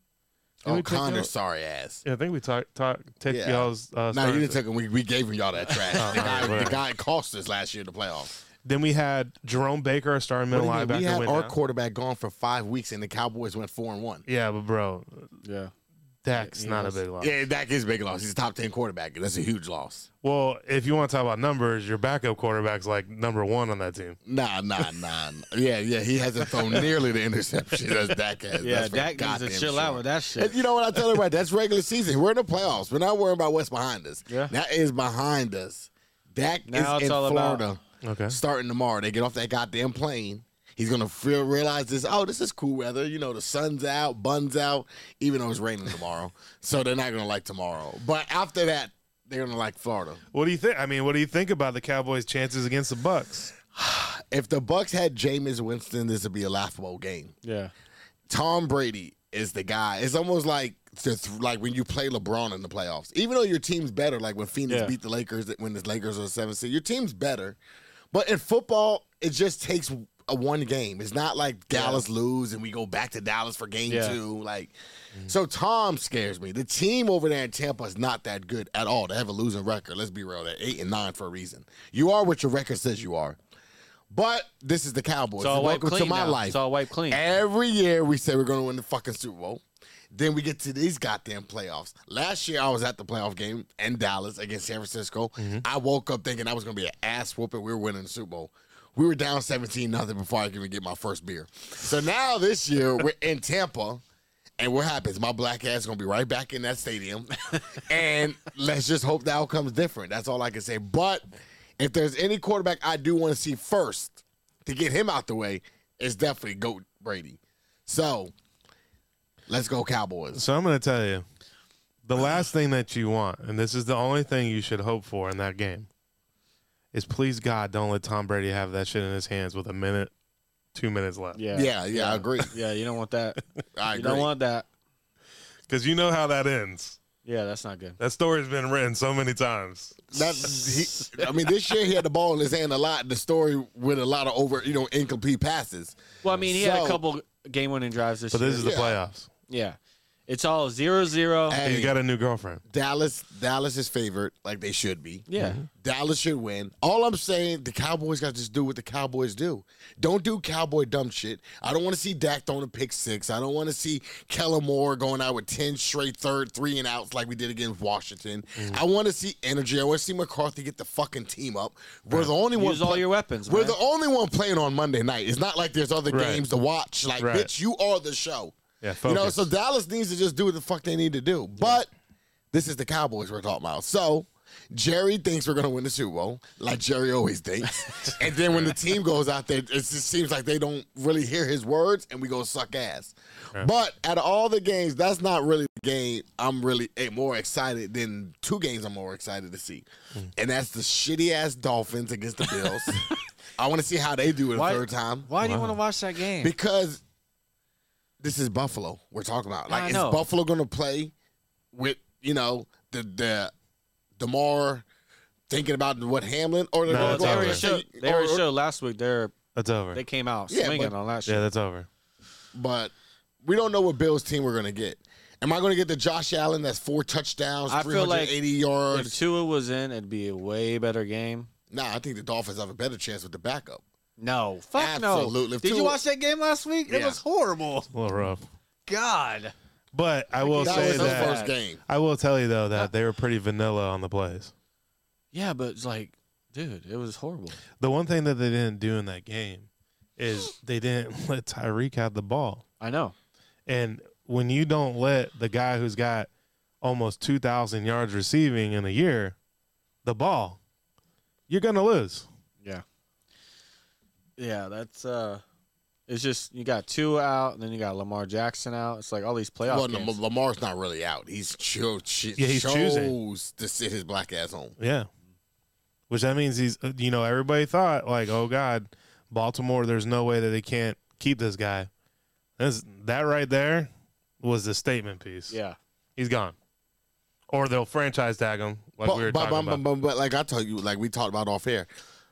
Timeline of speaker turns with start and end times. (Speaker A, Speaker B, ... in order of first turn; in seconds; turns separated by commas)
Speaker A: 0.6-2.0, Speaker B: 0.7-1.3, Speaker B: 2.0-4.6, Speaker A: 3.3-8.4, Speaker B: 6.0-6.8, Speaker B: 8.6-11.5, Speaker A: 10.5-14.2, Speaker B: 14.3-15.3, Speaker C: 15.4-15.7, Speaker B: 16.2-17.3, Speaker C: 16.4-17.0, Speaker A: 17.2-20.1, Speaker B: 20.2-24.2, Speaker A: 24.3-50.2, Speaker C: 28.6-30.6, Speaker C: 36.7-37.6, Speaker B: 38.0-38.4, Speaker B: 50.3-53.5, Speaker A: 53.7-57.3, Speaker C: 57.4-57.7, Speaker A: 58.3-67.6, Speaker A: 68.1-74.7, Speaker C: 71.7-72.0, Speaker C: 73.9-74.2, Speaker A: 75.3-83.4, Speaker A: 84.1-86.6, Speaker C: 85.4-87.2, Speaker A: 87.1-104.0, Speaker B: 95.4-95.6, Speaker A: 104.6-111.2, Speaker A: 111.8-118.3, Speaker A: 119.5-120.4, Speaker B: 120.3-121.2, Speaker B: 122.0-125.9, Speaker B: 126.9-130.1, Speaker B: 130.7-131.4, Speaker C: 131.3-133.4, Speaker A: 131.5-132.5, Speaker A: 133.8-134.3, Speaker C: 133.9-134.7, Speaker B: 135.7-137.0, Speaker C: 137.2-138.0, Speaker B: 138.0-140.1, Speaker A: 140.1-147.0, Speaker C: 146.2-148.8, Speaker B: 148.3-149.3, Speaker A: 148.6-149.0, Speaker C: 149.5-151.6, Speaker A: 151.5-151.9, Speaker B: 151.6-152.6, Speaker A: 152.7-181.9, Speaker C: 155.3-155.6, Speaker B: 155.4-155.7, Speaker C: 172.6-173.8, Speaker B: 176.1-176.5, Speaker B: 177.2-177.5, Speaker B: 178.8-179.4, Speaker A: 182.5-203.0, Speaker B: 188.5-188.8, Speaker C: 202.6-203.0, Speaker A: 203.6-205.3, Speaker C: 204.6-206.5, Speaker B: 205.4-205.8, Speaker A: 206.4-207.0, Speaker A: 208.2-211.1, Speaker C: 209.7-210.2, Speaker A: 211.7-213.5, Speaker A: 214.2-214.9, Speaker A: 215.5-218.4, Speaker B: 216.9-217.7, Speaker C: 216.9-219.3, Speaker B: 219.6-220.0, Speaker C: 219.9-221.5, Speaker A: 220.5-220.9, Speaker B: 221.3-221.9, Speaker A: 222.6-222.9, Speaker A: 223.4-229.2, Speaker C: 227.7-228.4, Speaker C: 228.9-231.5, Speaker A: 231.7-233.8, Speaker C: 234.2-237.9, Speaker A: 234.8-236.0, Speaker A: 236.9-237.2, Speaker B: 237.9-238.4, Speaker C: 238.9-239.5, Speaker B: 239.9-244.5, Speaker C: 240.4-241.5, Speaker A: 240.6-241.8, Speaker C: 245.3-247.6, Speaker B: 247.8-252.6, Speaker C: 252.8-253.2, Speaker B: 253.7-256.3, Speaker B: 256.8-259.4, Speaker B: 260.1-260.6, Speaker B: 261.5-262.3, Speaker C: 264.4-265.4, Speaker C: 266.1-270.1, Speaker A: 269.7-274.8, Speaker B: 272.4-273.1, Speaker B: 274.8-275.1, Speaker B: 276.1-281.9, Speaker B: 282.6-283.9, Speaker B: 284.4-285.5, Speaker C: 285.5-285.8, Speaker B: 286.2-286.6, Speaker B: 287.5-289.8, Speaker A: 289.0-291.9